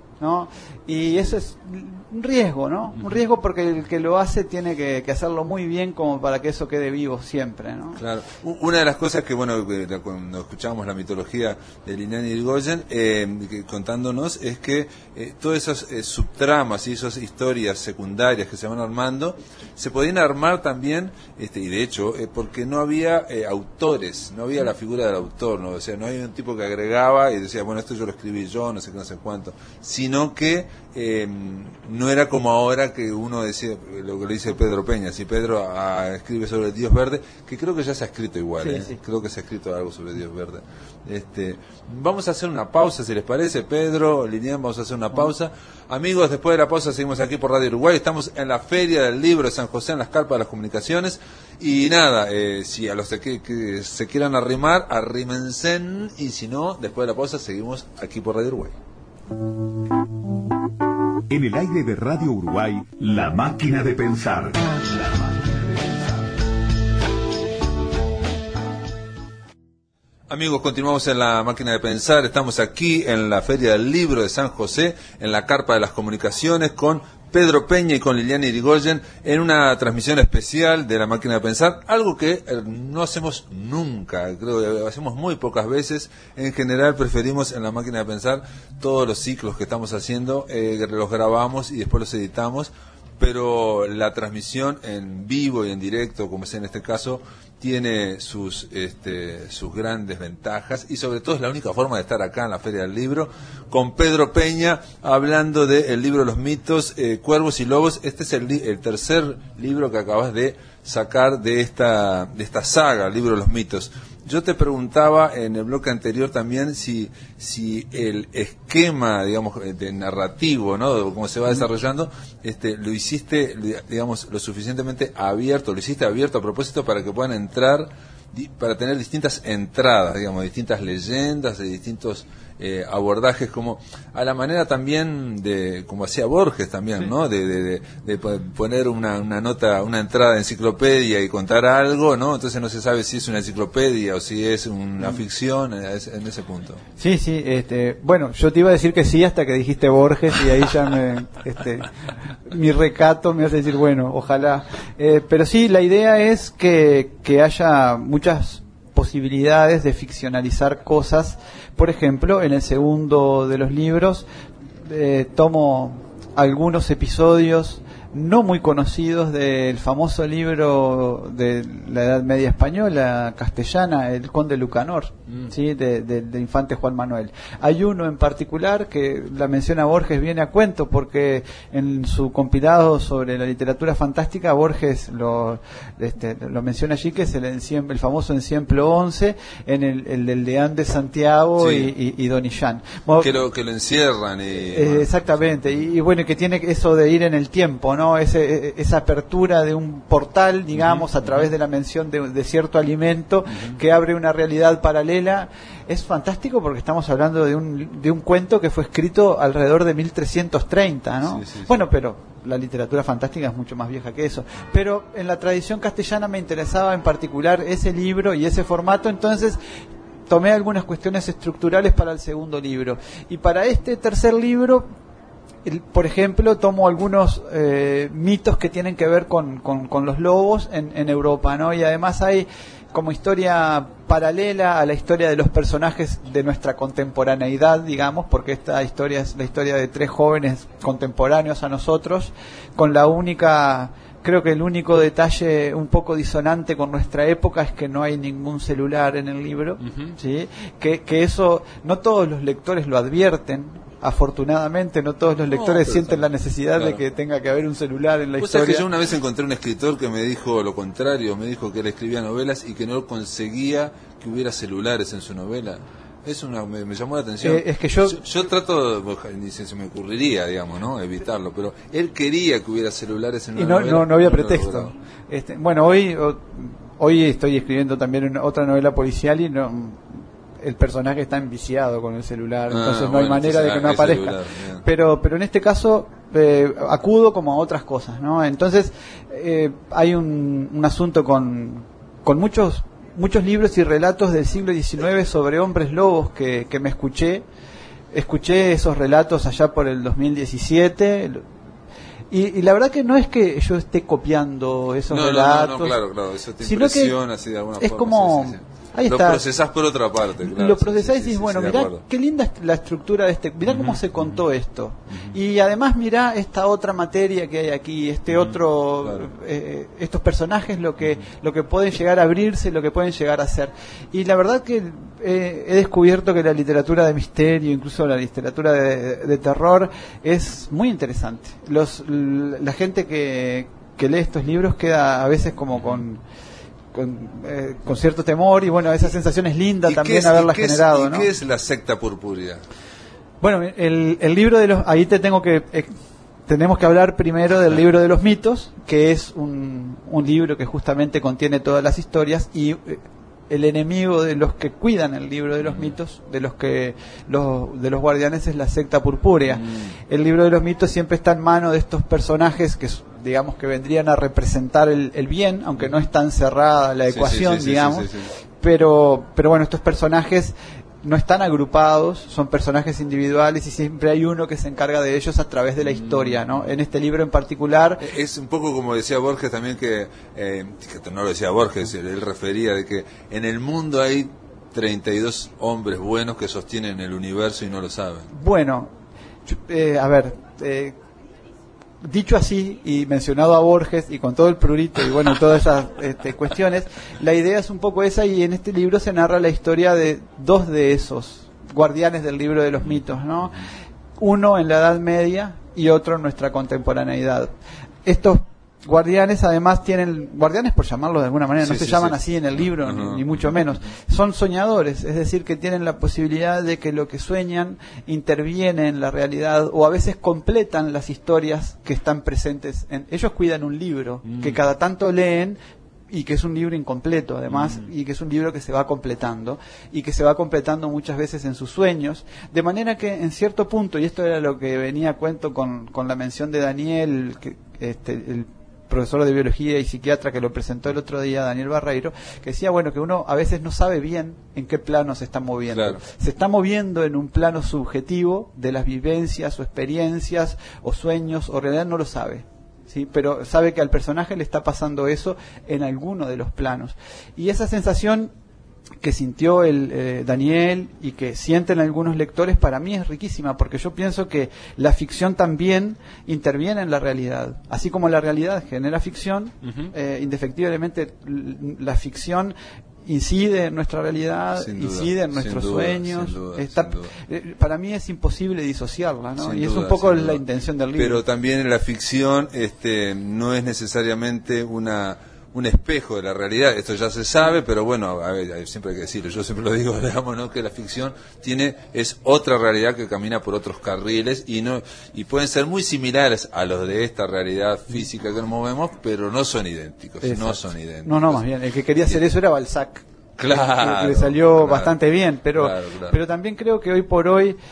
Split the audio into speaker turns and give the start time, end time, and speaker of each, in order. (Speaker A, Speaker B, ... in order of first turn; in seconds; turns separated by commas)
Speaker A: 0.2-8.0, Speaker B: 8.0-58.8, Speaker A: 38.6-39.0, Speaker C: 61.3-66.1, Speaker B: 70.3-146.8, Speaker A: 147.0-151.9, Speaker A: 152.5-164.2, Speaker A: 164.8-193.3, Speaker B: 191.6-191.9, Speaker B: 193.2-195.5, Speaker A: 194.7-219.6, Speaker B: 200.7-201.5, Speaker B: 211.2-211.8, Speaker A: 220.3-224.9, Speaker A: 225.6-258.8, Speaker B: 249.8-250.2, Speaker B: 255.5-257.0, Speaker B: 258.4-274.9, Speaker A: 267.4-268.2, Speaker A: 273.6-297.4, Speaker B: 282.7-284.8, Speaker A: 298.1-301.4, Speaker A: 302.3-306.0, Speaker B: 305.1-312.0, Speaker A: 306.6-307.1, Speaker A: 307.8-309.4, Speaker A: 310.4-336.2, Speaker B: 313.7-314.3, Speaker B: 318.3-319.3, Speaker A: 336.9-341.3, Speaker B: 339.9-342.6, Speaker A: 343.4-345.9, Speaker A: 346.5-378.0, Speaker B: 355.6-355.9, Speaker B: 359.5-359.9, Speaker B: 367.1-368.3, Speaker B: 375.9-376.6, Speaker B: 378.0-388.3, Speaker A: 388.3-388.9, Speaker A: 389.5-390.9, Speaker A: 392.0-403.6, Speaker A: 404.2-407.5, Speaker A: 408.1-425.6, Speaker B: 411.6-412.2, Speaker B: 412.7-413.4, Speaker B: 424.3-424.6, Speaker A: 426.1-458.3, Speaker B: 427.5-427.8, Speaker B: 445.7-446.0, Speaker A: 459.0-472.5, Speaker B: 469.6-469.9, Speaker A: 473.1-481.2, Speaker B: 474.5-477.1, Speaker B: 479.4-480.4, Speaker B: 480.9-501.4, Speaker A: 500.2-507.6, Speaker B: 503.4-504.9, Speaker B: 505.6-506.2